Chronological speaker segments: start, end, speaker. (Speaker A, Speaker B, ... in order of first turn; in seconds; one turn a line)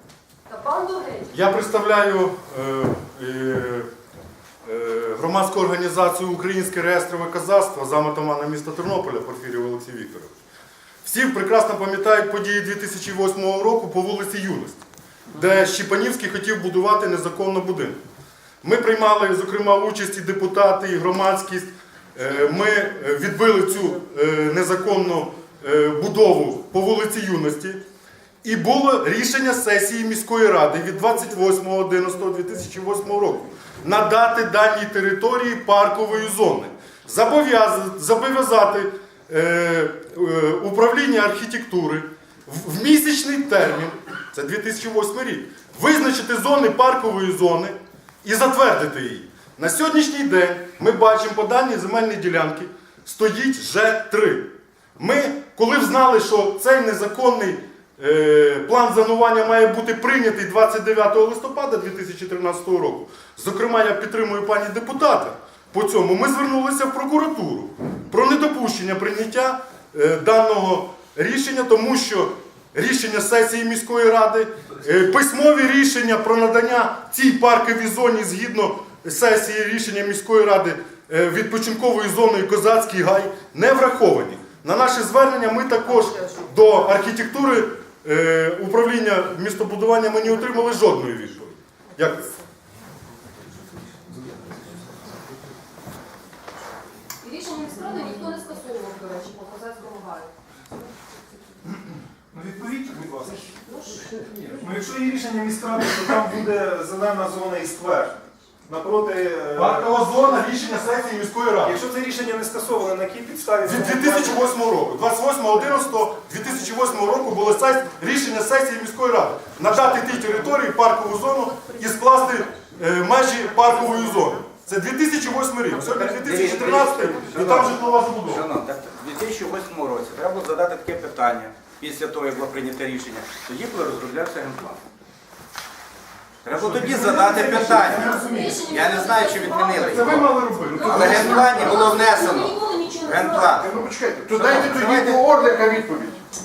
Speaker A: 0.5-1.3
Speaker B: 1.3-3.9
Speaker B: 4.6-10.4
Speaker B: 11.0-14.8
Speaker B: 15.3-18.0
Speaker B: 18.6-27.8
Speaker B: 28.4-92.3
Speaker A: 97.2-100.3
Speaker C: 102.3-103.5
Speaker A: 103.6-104.1
Speaker C: 104.5-109.9
Speaker B: 109.5-111.8
Speaker C: 111.6-114.4
Speaker B: 113.7-128.4
Speaker D: 125.7-134.8
Speaker D: 136.4-138.1
Speaker C: 136.6-138.7
Speaker A: 137.7-143.6
Speaker D: 138.7-142.5
Speaker B: 139.8-141.8
Speaker D: 143.1-143.7
Speaker E: 143.4-146.2
Speaker D: 144.3-145.2